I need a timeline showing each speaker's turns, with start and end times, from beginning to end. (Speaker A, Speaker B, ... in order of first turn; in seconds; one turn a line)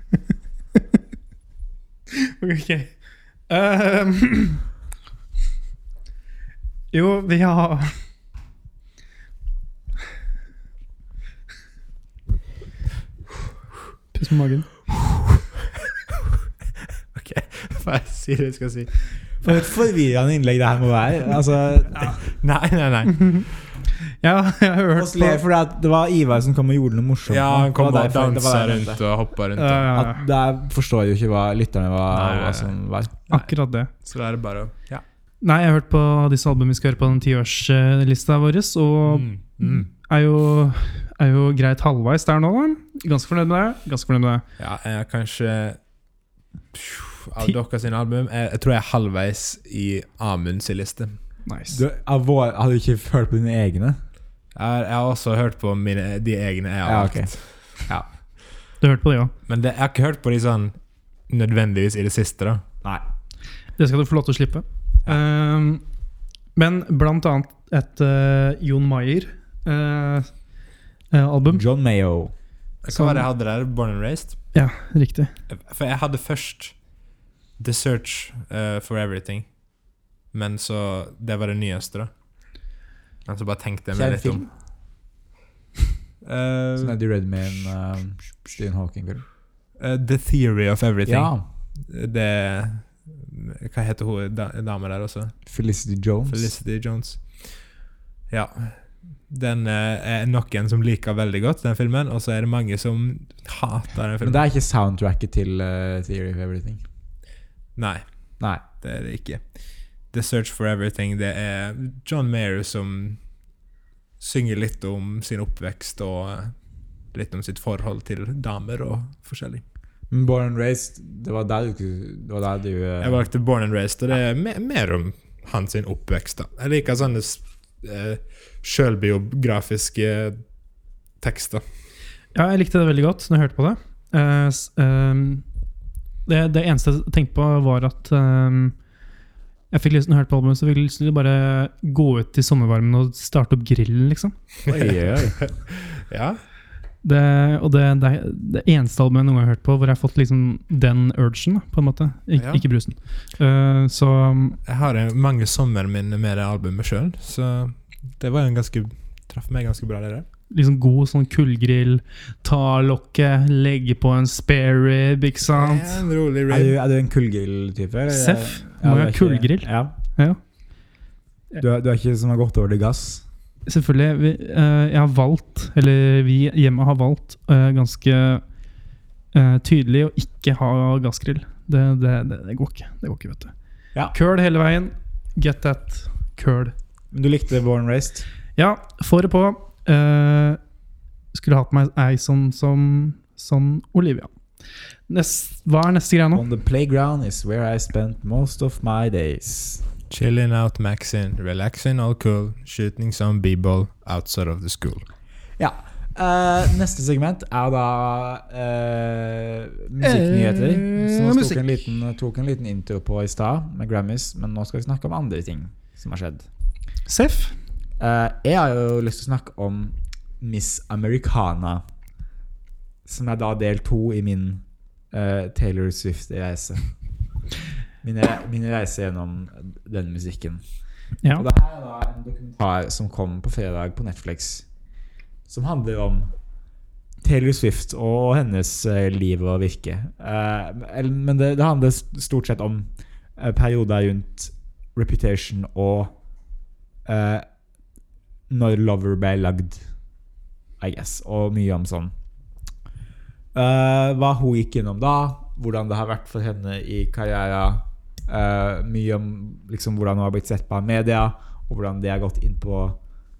Speaker A: 2.2-4.7
Speaker A: 6.9-7.9
Speaker A: 14.1-14.7
Speaker B: 17.1-19.0
Speaker C: 19.4-22.2
Speaker B: 22.2-23.6
Speaker A: 23.1-23.5
Speaker A: 24.1-25.4
Speaker C: 24.9-29.0
Speaker B: 27.3-29.9
Speaker A: 29.6-30.2
Speaker C: 29.9-33.1
Speaker B: 32.1-32.7
Speaker A: 33.3-33.9
Speaker B: 34.0-35.0
Speaker A: 35.4-44.4
Speaker B: 39.1-39.8
Speaker B: 44.6-45.8
Speaker B: 46.7-51.2
Speaker A: 51.5-51.8
Speaker C: 51.7-54.0
Speaker B: 54.5-57.5
Speaker C: 56.8-58.0
Speaker A: 58.8-59.3
Speaker B: 59.5-60.8
Speaker B: 61.3-62.6
Speaker A: 63.8-65.8
Speaker A: 66.5-70.4
Speaker A: 71.1-71.6
Speaker C: 71.5-72.3
Speaker B: 72.8-74.4
Speaker A: 72.9-73.2
Speaker A: 74.5-75.3
Speaker B: 75.5-76.8
Speaker B: 77.6-79.5
Speaker B: 80.3-82.1
Speaker B: 83.2-84.5
Speaker C: 83.9-84.5
Speaker B: 86.2-87.0
Speaker C: 86.8-89.2
Speaker B: 89.8-95.3
Speaker C: 91.0-91.4
Speaker C: 95.5-96.5
Speaker B: 96.3-97.7
Speaker B: 98.3-104.4
Speaker C: 104.2-106.8
Speaker B: 107.8-109.6
Speaker B: 110.1-113.2
Speaker B: 114.2-116.5
Speaker B: 117.1-119.6
Speaker C: 120.1-123.2
Speaker B: 123.0-130.4
Speaker B: 131.2-131.6
Speaker A: 132.3-135.4
Speaker A: 136.2-138.8
Speaker A: 139.7-144.3
Speaker C: 144.7-145.4
Speaker B: 144.7-146.4
Speaker A: 147.0-154.6
Speaker B: 152.3-152.6
Speaker B: 154.7-160.3
Speaker A: 160.5-166.0
Speaker B: 165.5-166.7
Speaker C: 166.5-169.9
Speaker A: 168.1-170.4
Speaker C: 171.6-173.2
Speaker A: 173.7-178.4
Speaker A: 179.3-183.5
Speaker A: 184.1-186.7
Speaker C: 187.1-188.3
Speaker A: 188.6-190.6
Speaker A: 191.3-194.3
Speaker A: 195.1-196.4
Speaker C: 196.3-199.8
Speaker B: 200.1-205.0
Speaker C: 205.6-216.5
Speaker B: 210.0-211.6
Speaker A: 217.1-217.5
Speaker C: 218.0-221.8
Speaker C: 223.1-226.8
Speaker C: 228.0-230.6
Speaker C: 231.3-234.7
Speaker C: 235.5-236.3
Speaker C: 237.2-246.1
Speaker C: 247.1-247.4
Speaker C: 248.5-249.8
Speaker C: 250.8-252.1
Speaker C: 253.5-263.0